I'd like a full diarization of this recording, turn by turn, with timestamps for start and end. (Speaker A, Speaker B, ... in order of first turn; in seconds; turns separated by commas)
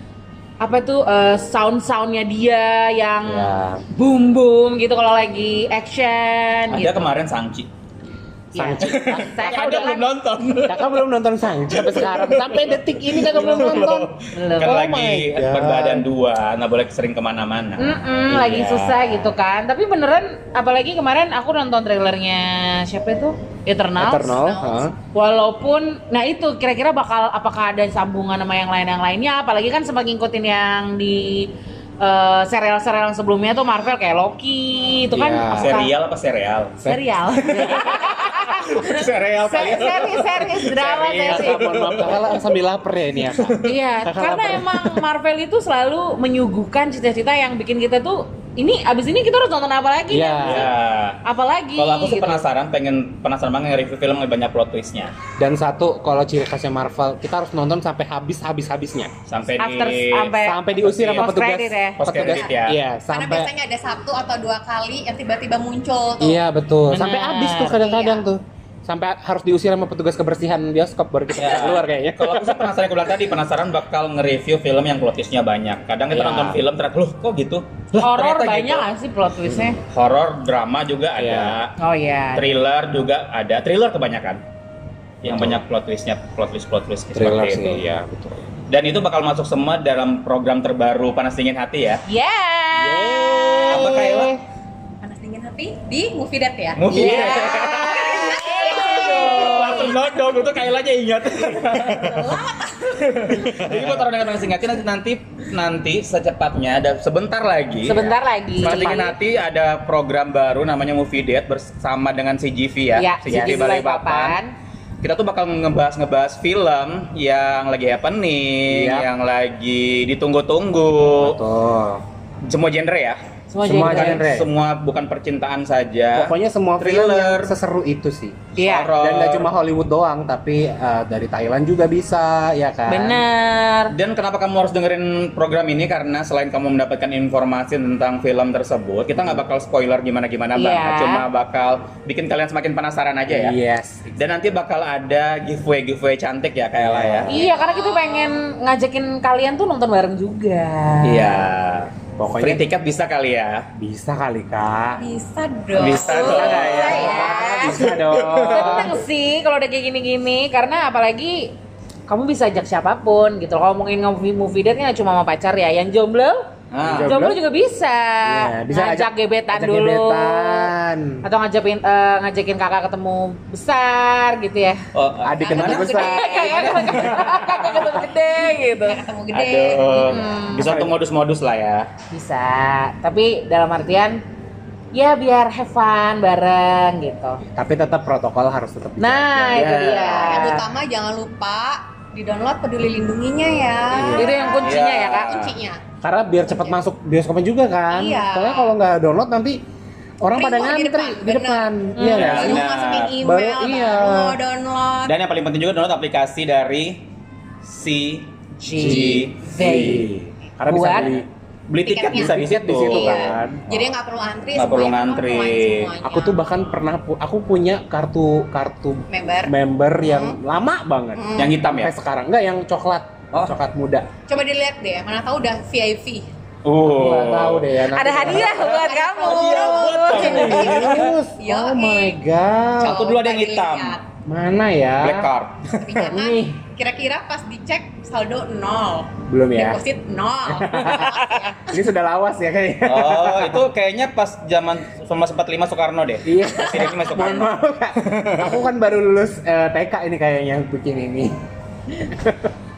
Speaker A: 0.6-7.2, Speaker B: 3.2-3.9, Speaker C: 6.7-7.7, Speaker B: 8.5-9.5, Speaker A: 8.5-10.1, Speaker C: 8.8-11.1, Speaker B: 10.7-16.1, Speaker C: 11.7-19.3, Speaker A: 13.3-14.8, Speaker A: 17.8-24.4, Speaker B: 24.0-24.9, Speaker D: 24.3-24.9, Speaker A: 25.1-35.9, Speaker B: 35.1-35.8, Speaker C: 35.5-36.8, Speaker A: 36.8-38.9, Speaker B: 36.8-37.9, Speaker C: 37.5-42.5, Speaker A: 39.4-41.6, Speaker B: 41.2-44.9, Speaker C: 43.3-43.7, Speaker A: 43.6-50.7, Speaker B: 50.1-50.8, Speaker C: 50.4-51.2, Speaker A: 51.2-52.5, Speaker C: 51.8-55.1, Speaker B: 55.4-59.1, Speaker C: 59.3-61.3, Speaker A: 59.5-62.1, Speaker B: 60.4-63.5, Speaker C: 62.0-62.8, Speaker D: 62.2-66.4, Speaker B: 66.2-72.7, Speaker A: 66.9-67.8, Speaker D: 67.8-68.2, Speaker C: 71.3-78.9, Speaker B: 76.1-76.6, Speaker A: 78.0-79.8, Speaker B: 79.5-79.8, Speaker C: 79.9-81.7, Speaker B: 81.1-81.6, Speaker A: 81.8-82.5, Speaker C: 82.3-84.4, Speaker C: 85.2-87.8, Speaker B: 85.2-85.6, Speaker B: 87.1-88.4, Speaker C: 88.7-92.0, Speaker A: 92.1-93.9, Speaker B: 92.7-94.4, Speaker C: 93.6-94.4, Speaker D: 95.0-100.0, Speaker C: 96.8-102.4, Speaker A: 96.9-100.0, Speaker B: 97.0-97.5, Speaker D: 101.8-103.7, Speaker C: 103.0-114.4, Speaker A: 107.8-109.1, Speaker B: 108.6-109.1, Speaker A: 113.0-114.5, Speaker C: 115.0-121.4, Speaker B: 118.7-119.1, Speaker B: 121.2-122.0, Speaker C: 122.5-123.2, Speaker A: 123.5-124.2, Speaker B: 123.6-124.5, Speaker C: 123.8-127.5, Speaker B: 126.1-128.4, Speaker A: 128.6-128.9, Speaker C: 128.6-129.5, Speaker B: 129.0-133.2, Speaker A: 132.9-133.9, Speaker C: 133.9-143.6, Speaker B: 139.1-139.4, Speaker A: 140.6-141.3, Speaker B: 143.3-144.3, Speaker C: 144.2-147.4, Speaker B: 146.7-147.4, Speaker A: 147.3-151.4, Speaker D: 147.3-148.4, Speaker C: 151.0-153.7, Speaker B: 152.2-152.6, Speaker B: 153.8-155.1, Speaker D: 155.0-157.2, Speaker C: 155.7-158.9, Speaker A: 155.8-157.8, Speaker B: 156.1-159.0, Speaker A: 158.5-161.5, Speaker A: 162.1-166.4, Speaker C: 166.7-167.2, Speaker B: 166.8-167.4, Speaker A: 167.0-170.7, Speaker B: 168.2-171.2, Speaker A: 171.2-174.8, Speaker C: 174.9-175.9, Speaker B: 175.2-177.4, Speaker D: 175.4-177.1, Speaker A: 175.7-179.0, Speaker C: 176.9-177.9, Speaker D: 178.6-180.2, Speaker C: 179.3-181.9, Speaker A: 180.1-180.7, Speaker B: 180.5-181.0, Speaker A: 182.1-184.2, Speaker A: 184.9-187.4, Speaker B: 187.5-190.6, Speaker A: 189.0-190.7, Speaker C: 189.5-190.4, Speaker D: 190.2-195.8, Speaker B: 193.9-194.5, Speaker A: 194.1-195.4, Speaker C: 194.6-195.5, Speaker B: 196.0-199.6, Speaker D: 196.4-196.8, Speaker D: 197.9-198.8, Speaker B: 200.2-202.6, Speaker D: 200.3-201.7, Speaker A: 201.9-202.4, Speaker C: 202.1-203.2, Speaker D: 202.2-205.2, Speaker B: 203.2-204.4, Speaker C: 205.1-207.0, Speaker C: 207.6-209.4, Speaker A: 208.6-210.1, Speaker B: 208.7-211.3, Speaker A: 210.7-211.1, Speaker C: 211.0-213.4, Speaker D: 211.8-216.4, Speaker B: 212.1-213.9, Speaker C: 214.6-215.9, Speaker B: 216.0-224.1, Speaker D: 219.1-220.4, Speaker D: 221.1-221.6, Speaker C: 221.4-221.9, Speaker D: 224.3-226.3, Speaker C: 226.6-227.7, Speaker B: 226.8-228.6, Speaker A: 227.9-230.7, Speaker D: 228.2-232.2, Speaker C: 228.6-231.2, Speaker B: 230.1-233.0, Speaker D: 232.8-234.0, Speaker C: 232.8-234.0, Speaker B: 234.2-235.3, Speaker C: 235.0-235.6, Speaker D: 235.8-241.7, Speaker B: 235.9-236.6, Speaker B: 239.3-239.8, Speaker B: 240.5-243.6, Speaker C: 242.8-248.7, Speaker B: 246.2-251.4, Speaker B: 251.9-252.5